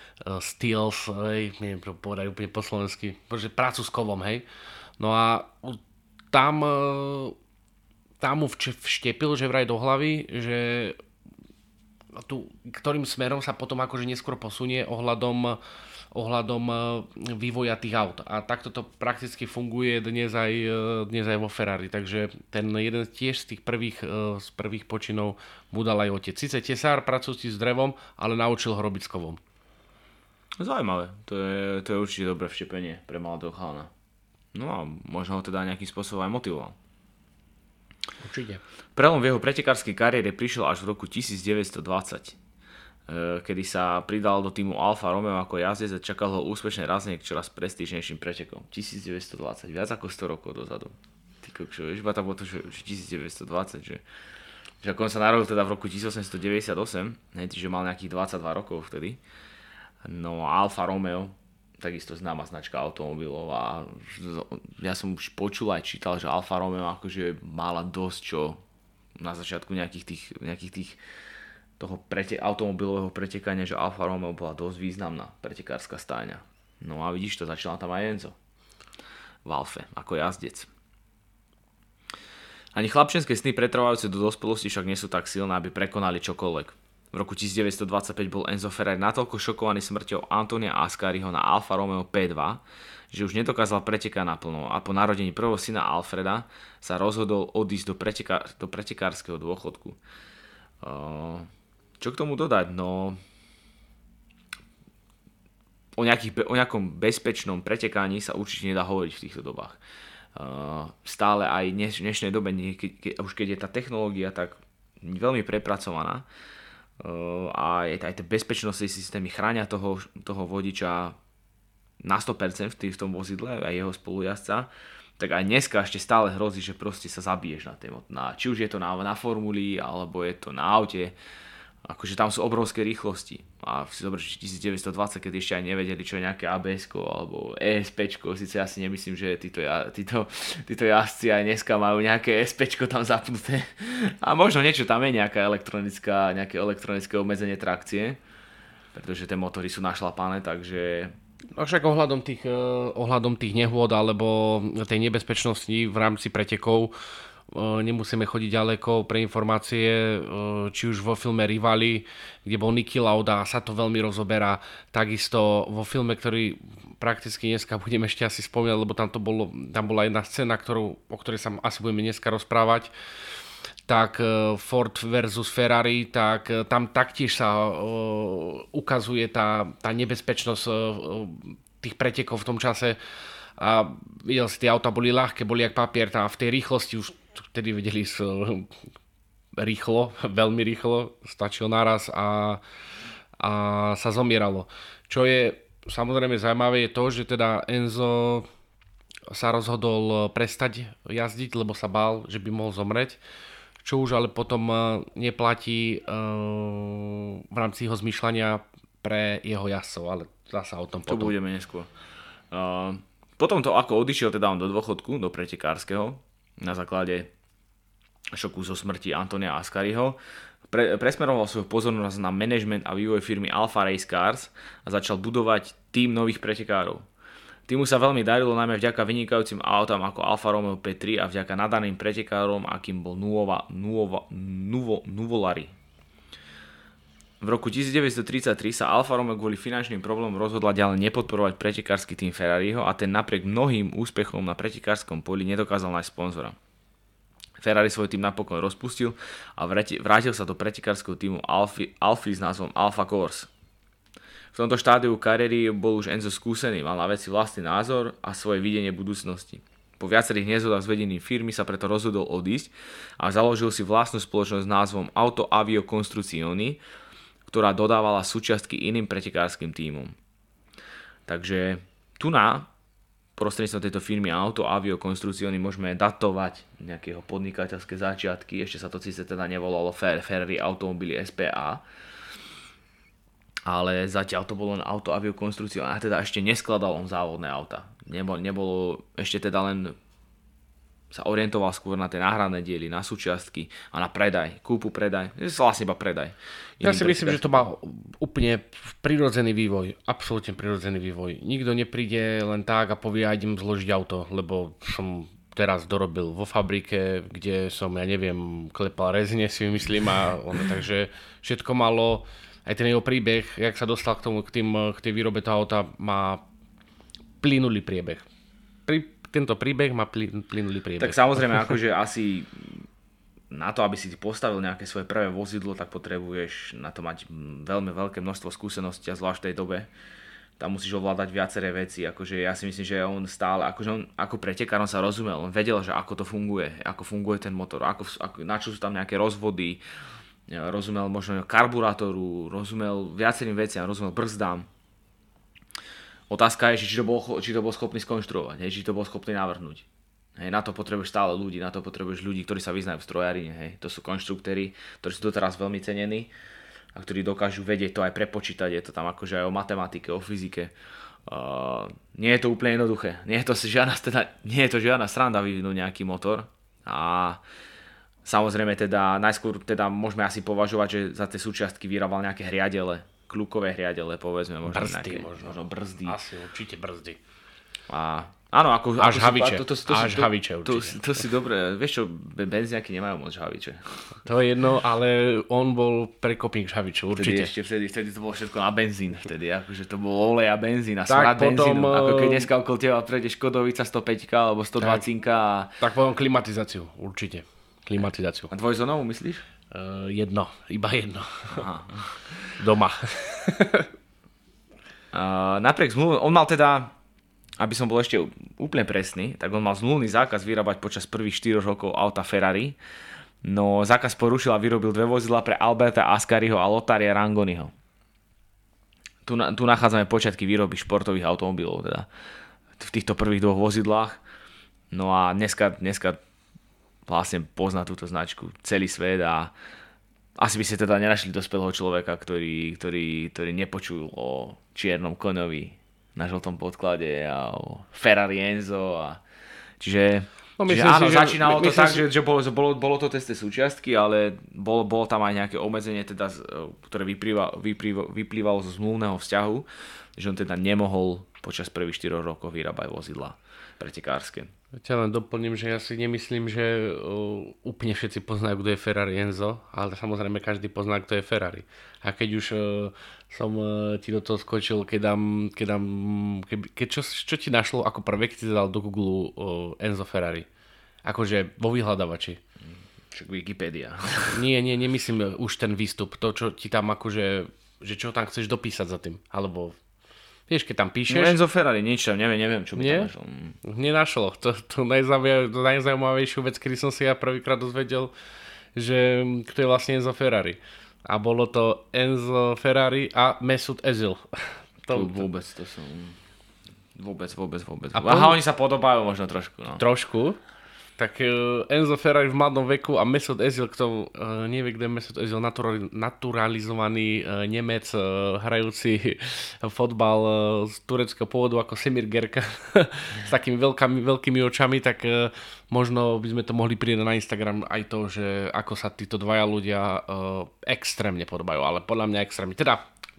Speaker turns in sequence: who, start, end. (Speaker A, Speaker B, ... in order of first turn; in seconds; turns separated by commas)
Speaker A: 0.2-4.4, Speaker A: 5.0-5.8, Speaker A: 6.3-7.3, Speaker A: 8.2-11.0, Speaker A: 12.2-15.6, Speaker A: 16.1-29.4, Speaker B: 30.6-33.9, Speaker B: 34.5-36.8, Speaker A: 38.2-38.6, Speaker B: 39.0-42.4, Speaker B: 43.1-54.0, Speaker B: 54.8-59.2, Speaker B: 60.0-68.6, Speaker B: 69.2-71.0, Speaker B: 71.8-78.3, Speaker B: 79.4-80.7, Speaker B: 82.7-100.0, Speaker B: 100.8-101.5, Speaker B: 102.0-103.2, Speaker B: 106.0-109.8, Speaker B: 110.3-116.2, Speaker B: 117.0-121.2, Speaker B: 122.0-131.1, Speaker B: 131.8-148.2, Speaker B: 148.9-151.1, Speaker A: 151.6-156.9, Speaker A: 157.5-172.9, Speaker A: 173.9-183.0, Speaker A: 183.6-188.7, Speaker A: 189.6-192.6, Speaker A: 193.4-198.5, Speaker A: 199.3-203.2, Speaker A: 203.8-211.3, Speaker B: 211.1-211.9, Speaker B: 212.5-217.3, Speaker B: 218.3-220.2, Speaker B: 220.7-227.0, Speaker B: 227.7-235.7, Speaker B: 237.4-246.6, Speaker B: 247.6-253.5, Speaker B: 254.5-266.8, Speaker B: 267.4-270.1, Speaker B: 271.3-272.7, Speaker B: 273.4-281.8, Speaker B: 283.6-289.9, Speaker B: 291.1-297.7, Speaker A: 296.8-316.4, Speaker A: 317.4-318.2, Speaker A: 318.9-321.8, Speaker B: 321.0-322.9, Speaker B: 323.5-329.9, Speaker B: 330.6-339.8, Speaker B: 340.5-344.7, Speaker B: 346.3-349.9, Speaker B: 350.4-356.3, Speaker B: 356.9-360.7, Speaker B: 361.2-367.4, Speaker B: 368.2-376.1, Speaker A: 374.7-377.2, Speaker B: 377.9-384.1, Speaker A: 379.0-381.0, Speaker A: 384.2-387.5, Speaker B: 387.2-395.8, Speaker A: 391.1-392.5, Speaker A: 394.8-395.0, Speaker A: 395.8-398.5, Speaker B: 398.5-399.4, Speaker A: 399.7-401.6, Speaker B: 401.5-402.5, Speaker A: 402.6-403.9, Speaker B: 405.1-406.9, Speaker B: 407.6-412.8, Speaker B: 413.4-417.7, Speaker B: 419.2-422.1, Speaker B: 422.8-424.2, Speaker B: 424.9-426.2, Speaker B: 427.1-429.5, Speaker B: 430.4-439.2, Speaker B: 439.8-454.5, Speaker A: 440.6-442.1, Speaker A: 454.8-470.5, Speaker A: 471.0-472.4, Speaker B: 473.1-474.4, Speaker A: 474.3-479.8, Speaker A: 480.5-481.4, Speaker B: 481.1-483.6, Speaker A: 482.8-483.1, Speaker A: 483.6-488.1, Speaker A: 488.7-495.2, Speaker B: 494.9-496.2, Speaker B: 496.9-499.8, Speaker A: 497.9-498.4, Speaker A: 499.8-500.4, Speaker A: 501.0-522.8